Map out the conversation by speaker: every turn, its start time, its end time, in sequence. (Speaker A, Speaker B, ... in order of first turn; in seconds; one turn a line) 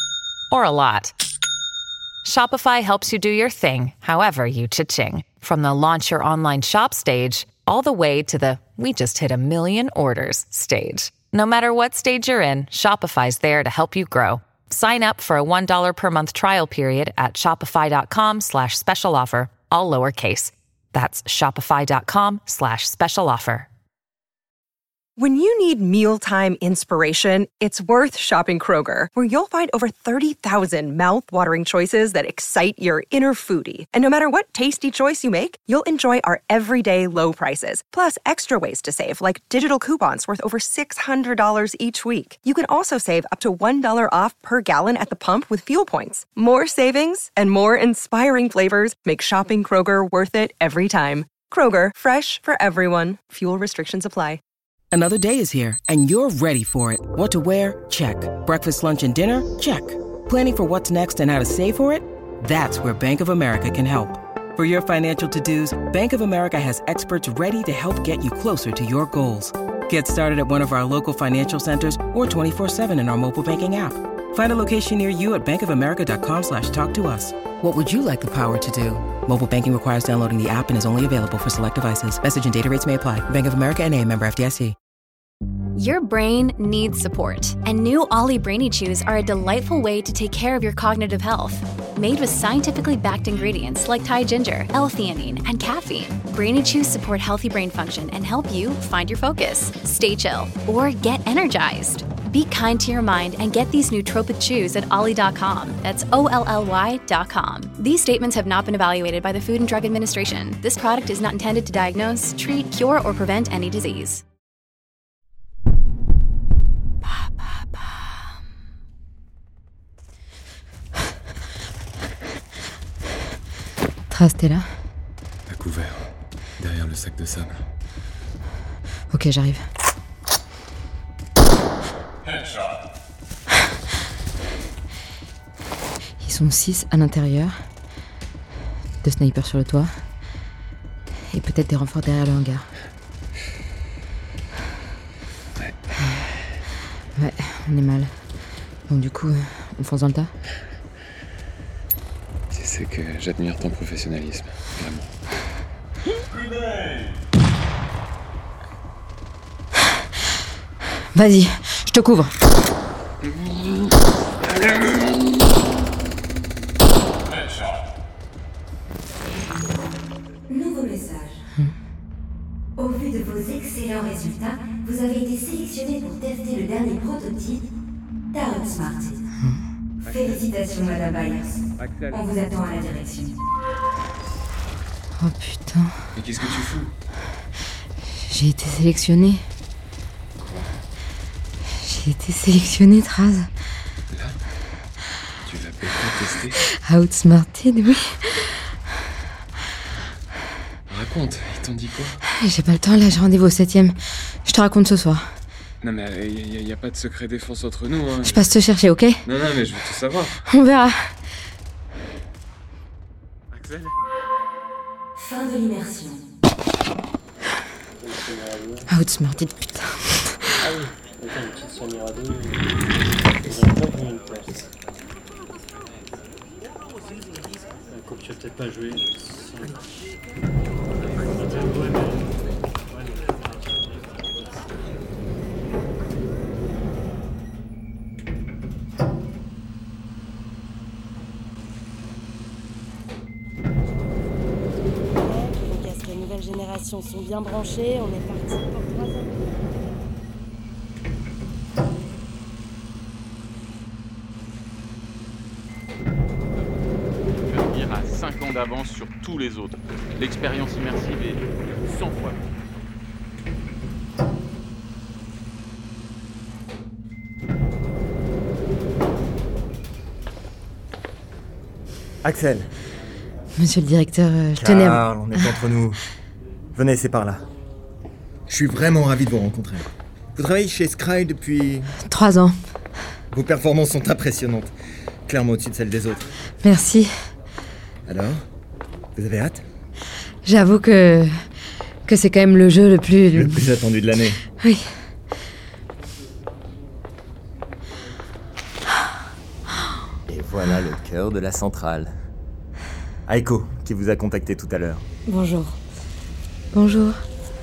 Speaker A: 0.5-1.1
Speaker A: 2.2-23.7
Speaker B: 25.2-54.4
Speaker C: 54.9-84.8
Speaker D: 85.8-114.2
Speaker E: 124.1-124.7
Speaker F: 125.5-126.0
Speaker F: 126.6-127.6
Speaker E: 129.1-129.6
Speaker E: 136.2-137.5
Speaker E: 139.0-139.9
Speaker E: 141.3-142.7
Speaker E: 147.2-148.1
Speaker E: 148.9-150.3
Speaker F: 152.5-155.1
Speaker E: 161.1-162.3
Speaker G: 170.5-171.4
Speaker G: 172.8-177.6
Speaker G: 178.3-179.2
Speaker B: 178.4-179.1
Speaker G: 180.1-183.3
Speaker E: 185.2-185.9
Speaker F: 186.1-186.9
Speaker E: 188.2-189.4
Speaker E: 191.7-193.5
Speaker F: 194.1-194.3
Speaker F: 195.4-196.6
Speaker E: 196.7-198.5
Speaker F: 200.9-202.2
Speaker E: 202.4-205.2
Speaker F: 205.8-208.5
Speaker E: 208.2-209.2
Speaker F: 209.2-210.4
Speaker E: 210.5-211.1
Speaker G: 215.3-216.2
Speaker H: 218.0-218.9
Speaker E: 218.9-220.5
Speaker H: 220.7-222.7
Speaker H: 223.4-224.7
Speaker H: 227.9-229.8
Speaker H: 231.3-232.3
Speaker H: 233.2-233.8
Speaker I: 245.3-249.0
Speaker J: 257.4-262.4
Speaker K: 272.2-272.7
Speaker E: 273.6-275.0
Speaker K: 274.6-276.0
Speaker K: 276.7-277.4
Speaker K: 278.5-281.9
Speaker E: 282.0-282.5
Speaker K: 283.3-284.7
Speaker K: 285.3-286.3
Speaker E: 286.6-287.1
Speaker K: 288.1-288.4
Speaker K: 289.1-289.6
Speaker E: 290.4-291.3
Speaker E: 292.1-293.6
Speaker K: 293.3-294.4
Speaker K: 300.3-302.1
Speaker K: 303.3-305.0
Speaker E: 305.3-305.8
Speaker E: 306.7-307.2